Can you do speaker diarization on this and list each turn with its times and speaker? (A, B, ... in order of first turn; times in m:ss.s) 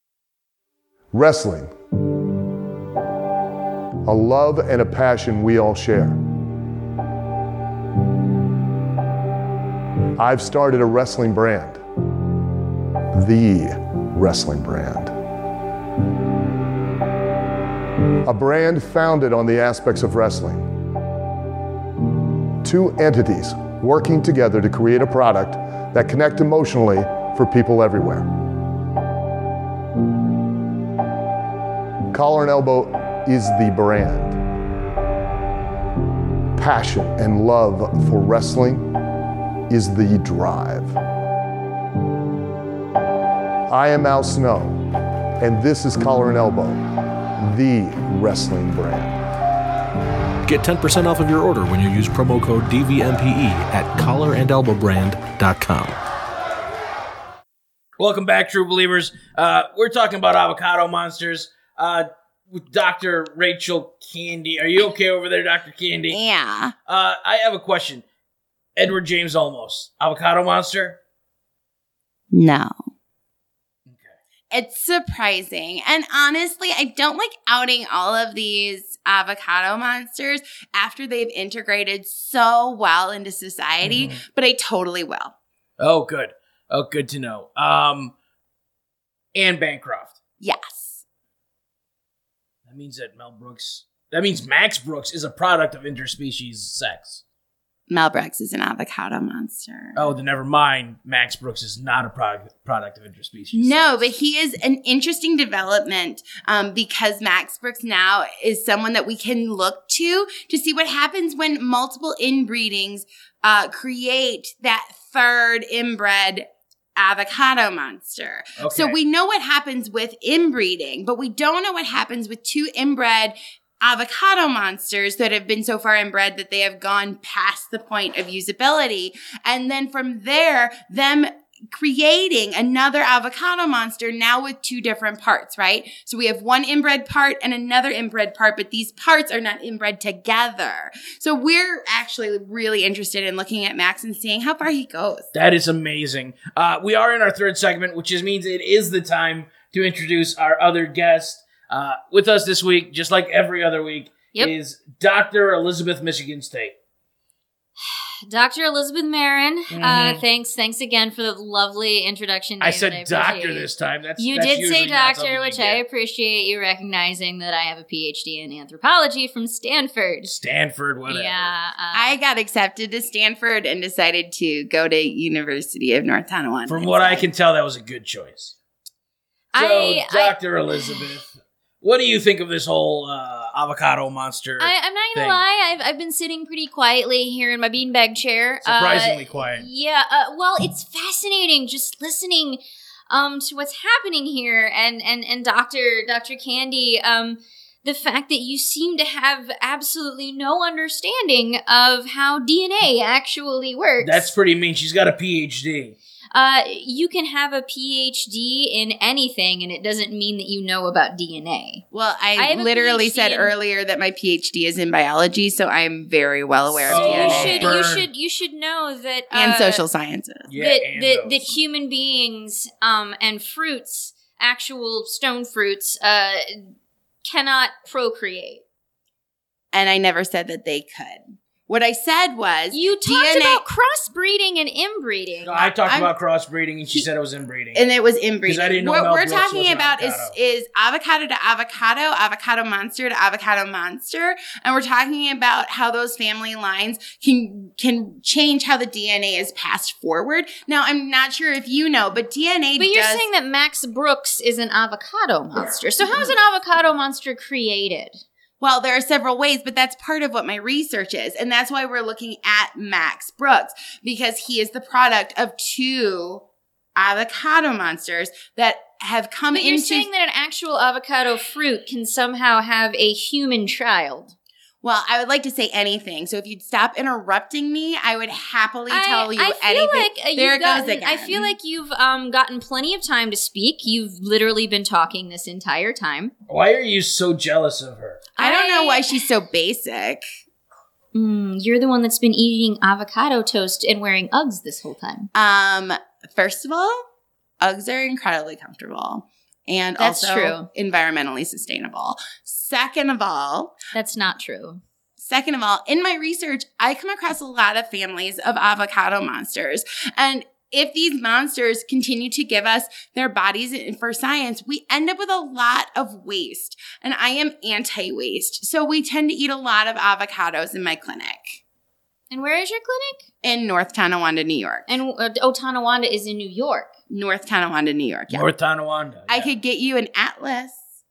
0:01.1-0:01.7 A
0:04.1-0:06.2 A
0:10.2-0:11.8 A
0:13.2-0:15.1 A
0:18.2-0:20.6 A
0:22.6-0:28.2 A
0:32.1-0:34.4 A
0:36.6-0:38.8 A
0:39.7-0:40.9 A
0:43.7-0:44.8 A
0:45.4-0:46.8 A
0:47.5-0:49.2 A
0:50.4-0:56.0 B
0:58.0-1:06.2 C
1:06.1-1:06.7 D
1:06.8-1:08.0 C
1:08.8-1:11.0 C
1:12.3-1:12.7 D
1:13.8-1:14.2 C
1:14.5-1:25.3 D
1:23.8-1:24.2 C
1:25.8-1:28.1 C
1:29.3-1:30.2 C
1:30.4-1:31.0 D
1:32.6-1:37.2 C
1:37.9-1:40.0 D
1:40.0-1:44.1 C
1:43.5-2:25.3 D
1:58.6-1:59.0 C
2:25.3-2:36.7 C
2:37.9-2:50.3 E
2:39.7-2:40.2 C
2:42.6-2:45.8 C
2:50.3-2:51.6 C
2:51.1-2:52.2 E
2:51.9-2:57.2 D
2:56.7-2:58.5 C
2:59.5-3:01.0 E
2:59.5-3:05.4 C
3:04.6-3:24.3 E
3:08.6-3:09.6 C
3:24.0-3:26.0 C
3:26.3-3:31.8 E
3:31.9-3:37.7 D
3:32.4-3:33.5 E
3:36.8-3:38.1 C
3:36.9-3:39.8 E
3:39.3-3:40.5 D
3:40.5-3:41.5 C
3:40.6-3:46.7 E
3:47.2-3:48.6 E
3:49.7-3:53.6 D
3:52.7-3:55.7 E
3:55.4-3:57.8 C
3:55.8-3:56.1 D
3:57.7-4:13.2 D
3:58.4-4:00.3 C
4:12.8-4:18.2 E
4:18.6-4:26.4 D
4:27.0-4:30.1 D
4:29.5-4:34.3 E
4:34.8-4:41.5 D
4:38.9-4:46.3 E
4:46.5-4:48.3 C
4:48.4-4:49.2 E
4:48.4-4:50.2 D
4:51.1-4:55.3 E
4:55.3-4:57.0 D
4:57.6-5:03.7 D
5:00.0-5:00.7 E
5:03.9-5:04.8 E
5:05.2-5:21.6 D
5:22.3-5:23.2 E
5:23.4-5:24.9 D
5:24.9-5:26.9 E
5:27.1-5:28.5 D
5:28.3-5:29.5 C
5:29.3-5:30.8 D